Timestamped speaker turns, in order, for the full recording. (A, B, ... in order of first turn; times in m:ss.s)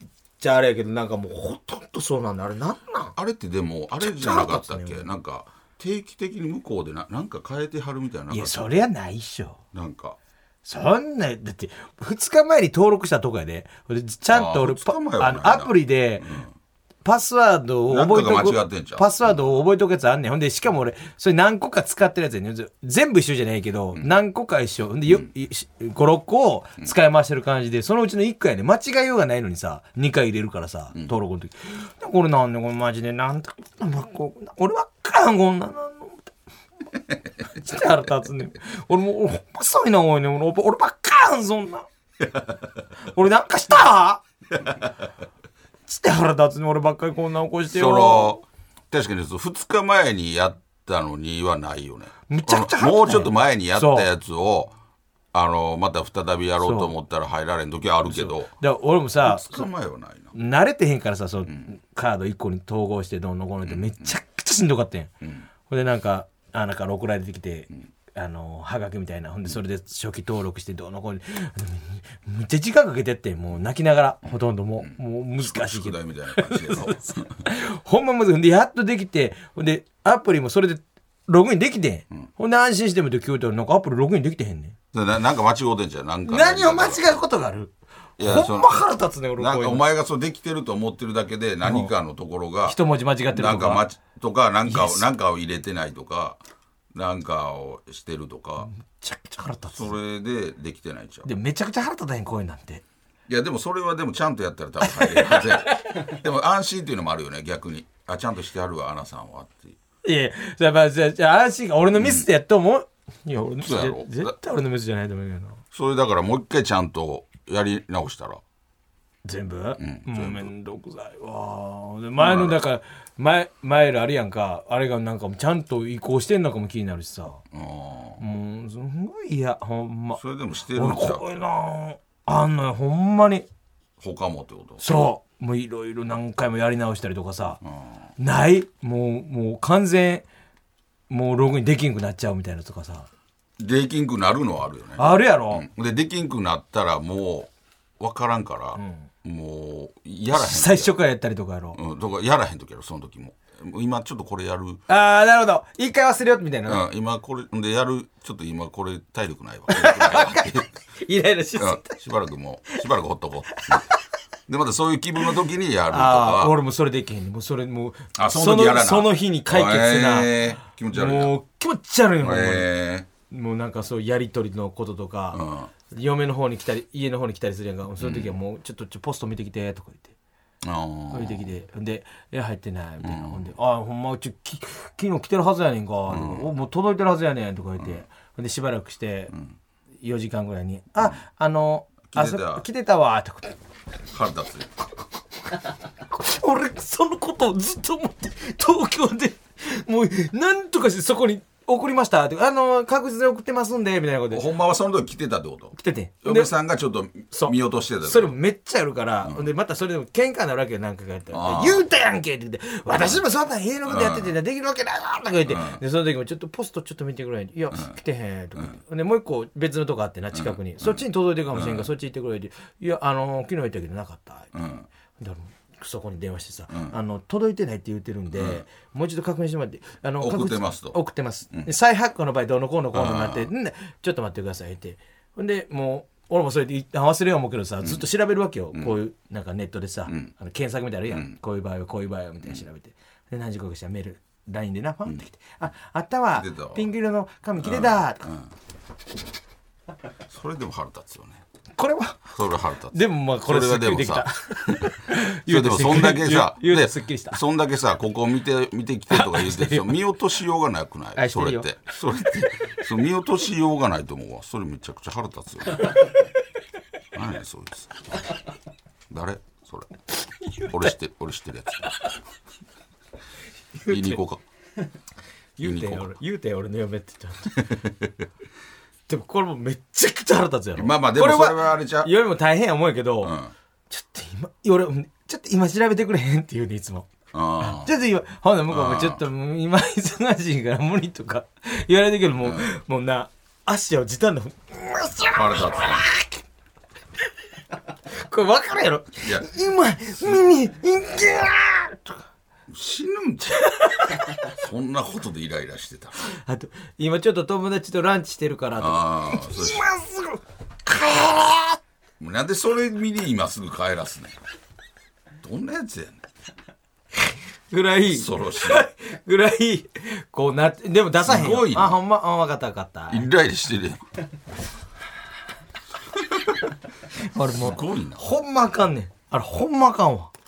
0:00.4-0:03.2 A
0:03.2-0:08.6 B
0:04.0-0:05.1 A
0:08.3-0:09.6 A
0:09.7-0:10.2 B
0:10.6-0:16.3 A
0:14.3-0:16.5 B
0:17.0-0:36.3 A
0:17.9-0:19.4 B
0:37.4-0:41.9 A
0:43.0-0:44.2 A
0:45.9-0:48.4 A
0:47.7-0:54.7 B
0:52.3-0:54.1 A
0:55.3-0:58.5 B
0:56.6-0:56.9 A
0:58.1-0:59.7 A
0:59.2-1:00.3 B
1:00.3-1:05.1 A
1:03.6-1:04.2 B
1:05.7-1:24.8 A
1:14.8-1:17.4 B
1:24.9-1:27.2 B
1:26.3-1:29.8 A
1:28.2-1:28.8 B
1:29.4-1:32.8 B
1:31.6-1:31.9 A
1:32.6-1:33.8 A
1:33.3-1:36.4 B
1:34.7-1:35.0 A
1:36.9-1:38.7 B
1:38.6-1:40.0 A
1:39.7-1:41.3 B
1:41.2-1:42.8 A
1:43.3-1:49.8 B
1:44.9-1:46.0 A
1:50.0-1:55.6 A
1:52.0-1:52.3 B
1:53.6-1:54.3 B
1:55.7-1:58.4 B
1:59.2-2:07.4 A
1:59.8-2:00.5 B
2:02.2-2:02.6 B
2:07.5-2:08.2 B
2:08.2-2:10.2 A
2:10.2-2:11.2 B
2:10.7-2:13.5 A
2:14.0-2:14.8 B
2:14.8-2:17.6 A
2:17.6-2:18.0 B
2:18.2-2:20.2 A
2:21.1-2:23.1 A
2:23.6-2:31.0 B
2:25.0-2:25.6 A
2:28.8-2:29.1 A
2:30.3-2:31.8 A
2:31.7-2:34.8 B
2:34.9-2:36.8 A
2:36.7-2:40.7 B
2:39.7-2:42.0 A
2:41.6-2:43.9 B
2:43.5-2:43.9 A
2:44.5-2:46.6 B
2:45.9-2:52.7 A
2:48.2-2:51.3 B
2:52.2-2:53.1 B
2:53.3-3:00.1 A
2:55.3-2:55.7 B
2:58.0-2:58.4 B
3:00.6-3:01.5 B
3:01.1-3:09.3 A
3:03.0-3:03.5 B
3:06.1-3:06.5 B
3:10.0-3:13.6 A
3:12.1-3:12.6 B
3:14.1-3:14.7 B
3:16.1-3:24.5 A
3:24.3-3:28.4 B
3:25.8-3:26.5 A
3:27.3-3:44.5 A
3:31.3-3:31.8 B
3:33.9-3:34.3 B
3:35.5-3:35.8 B
3:40.3-3:41.0 B
3:41.5-3:41.9 B
3:44.5-3:44.9 B
3:45.2-4:08.3 A
3:46.7-3:47.0 B
3:48.3-3:48.6 B
3:50.2-3:51.0 B
3:52.9-3:53.5 B
4:01.1-4:01.4 B
4:06.4-4:06.9 B
4:07.6-4:08.5 B
4:10.3-4:11.4 B
4:11.8-4:12.3 A
4:12.3-4:26.0 B
4:12.9-4:17.4 A
4:19.1-4:19.9 A
4:21.2-4:21.8 A
4:27.1-4:28.0 B
4:29.1-4:29.9 B
4:30.4-4:30.9 A
4:30.6-4:31.8 B
4:33.8-4:34.2 A
4:33.9-4:34.4 B
4:35.6-4:37.6 A
4:35.6-4:36.1 B
4:37.5-4:38.3 B
4:39.1-4:43.4 A
4:40.8-4:42.1 B
4:43.2-4:43.5 B
4:43.9-4:47.1 A
4:47.3-4:47.9 B
4:47.6-4:56.4 A
4:48.7-4:49.2 B
4:52.4-4:52.7 B
4:55.3-4:56.0 B
4:58.1-5:02.2 A
4:59.2-4:59.5 B
5:02.7-5:03.7 B
5:03.6-5:04.5 A
5:04.4-5:06.2 B
5:06.2-5:11.8 A
5:08.8-5:09.8 B
5:12.2-5:14.4 B
5:15.4-5:16.2 B
5:17.7-5:23.3 A
5:18.1-5:18.9 B
5:21.2-5:22.0 B
5:23.1-5:24.0 B
5:27.2-5:30.3 A
5:27.5-5:28.3 B